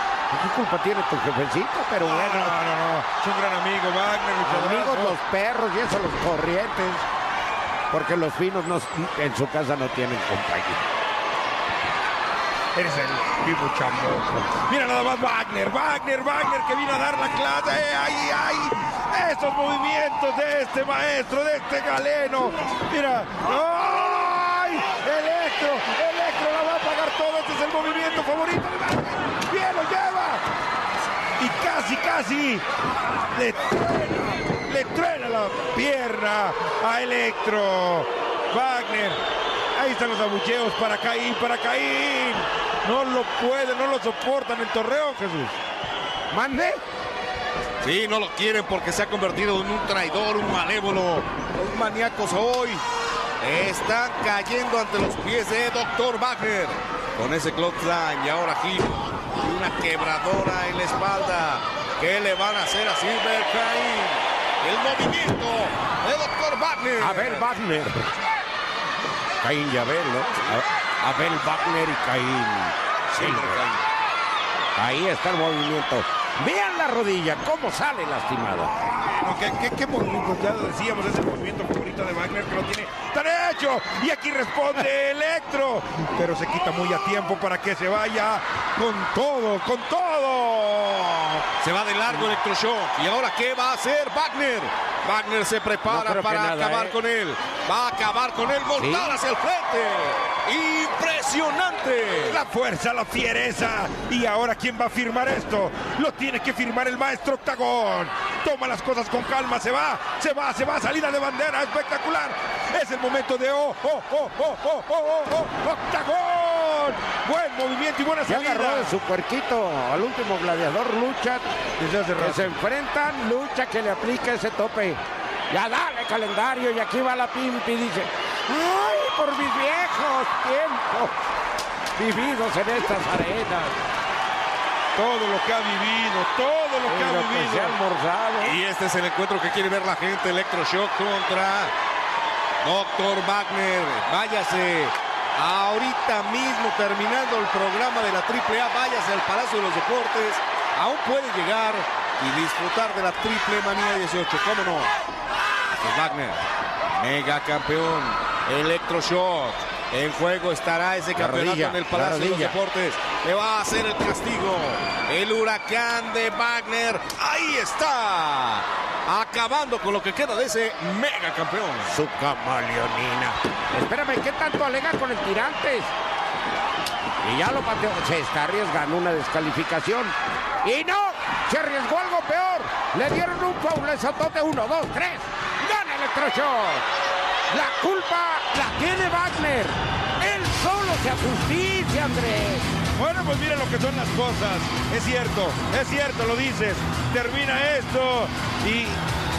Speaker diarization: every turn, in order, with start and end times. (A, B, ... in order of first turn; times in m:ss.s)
0:00.3-0:02.6 A
0:02.0-0:05.2 B
0:04.4-0:07.1 A
0:07.9-0:10.9 A
0:12.8-0:30.4 B
0:31.4-0:32.6 B
0:33.3-0:39.2 B
0:39.8-0:45.6 B
0:46.3-0:46.8 A
0:47.8-0:52.8 C
0:53.4-1:07.5 C
1:07.0-1:08.1 A
1:09.4-1:13.6 A
1:13.1-1:13.9 C
1:14.8-1:18.7 A
1:18.8-1:31.4 B
1:31.6-1:42.4 C
1:35.9-1:37.0 A
1:38.8-1:39.2 A
1:42.3-1:59.0 B
1:58.3-2:01.5 A
2:01.8-2:02.6 B
2:02.2-2:11.2 A
2:12.0-2:13.8 A
2:15.0-2:17.8 B
2:16.9-2:18.6 A
2:18.4-2:21.7 C
2:22.6-2:34.9 C
2:35.7-2:36.4 C
2:37.0-2:52.0 C
2:41.2-2:42.6 A
2:51.9-2:55.9 A
2:57.2-3:06.9 A
3:07.5-3:12.7 A
3:13.0-3:19.0 B